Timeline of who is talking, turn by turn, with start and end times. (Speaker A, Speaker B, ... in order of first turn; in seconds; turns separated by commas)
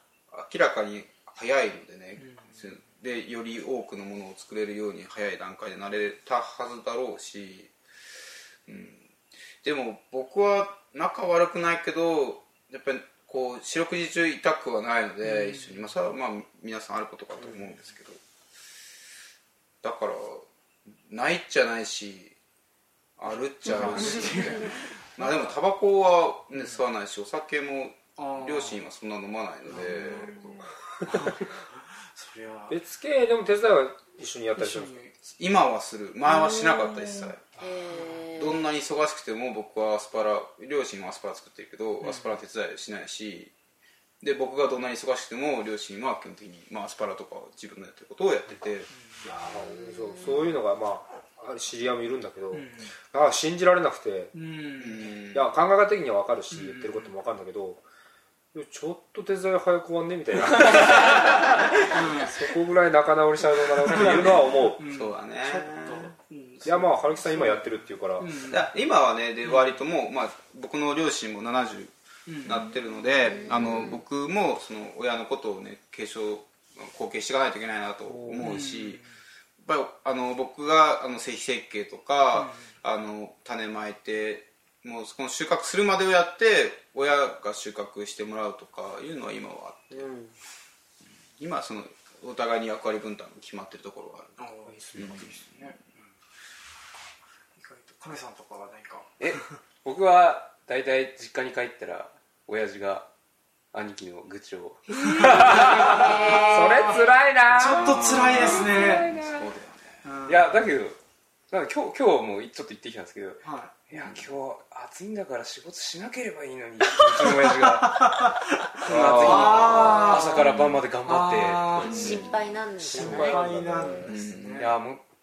Speaker A: 0.3-7.8, Speaker B: 2.2-2.6, Speaker A: 8.7-18.2, Speaker B: 15.2-15.9, Speaker A: 19.8-22.4, Speaker A: 23.2-30.5, Speaker B: 23.6-25.6, Speaker B: 28.2-28.8, Speaker B: 29.7-32.8, Speaker C: 30.9-31.4, Speaker C: 32.7-35.0, Speaker B: 34.6-35.1, Speaker A: 35.4-37.5, Speaker D: 37.6-38.6, Speaker B: 37.9-38.2, Speaker A: 38.4-43.5, Speaker B: 42.0-42.4, Speaker A: 44.2-48.9, Speaker B: 48.9-49.3, Speaker C: 49.2-54.3, Speaker B: 52.5-52.9, Speaker B: 54.3-55.1, Speaker A: 54.8-55.5, Speaker C: 55.3-57.8, Speaker B: 56.5-57.1, Speaker C: 58.5-64.8, Speaker B: 61.9-62.5, Speaker B: 63.9-68.7, Speaker A: 64.8-66.1, Speaker C: 66.7-68.5, Speaker A: 68.5-79.0, Speaker B: 69.4-69.8, Speaker B: 72.3-72.7, Speaker C: 78.1-78.5, Speaker B: 78.4-79.1, Speaker A: 79.6-90.1, Speaker B: 82.3-82.7, Speaker C: 89.9-90.3, Speaker A: 91.4-95.7, Speaker B: 94.4-96.1, Speaker C: 94.7-95.3, Speaker B: 97.6-99.4, Speaker E: 99.2-103.1, Speaker E: 103.7-105.8, Speaker B: 105.0-107.0, Speaker C: 105.0-109.5, Speaker D: 105.7-107.0, Speaker B: 107.5-109.1, Speaker A: 107.5-110.0, Speaker B: 110.0-110.5, Speaker E: 110.2-111.0, Speaker E: 111.5-122.2, Speaker B: 113.4-113.8, Speaker A: 113.9-114.2, Speaker B: 117.0-122.3, Speaker C: 118.9-120.2, Speaker A: 121.8-122.4, Speaker D: 121.8-123.5, Speaker C: 122.8-124.2, Speaker B: 122.9-124.8, Speaker A: 124.0-124.7, Speaker E: 124.6-125.0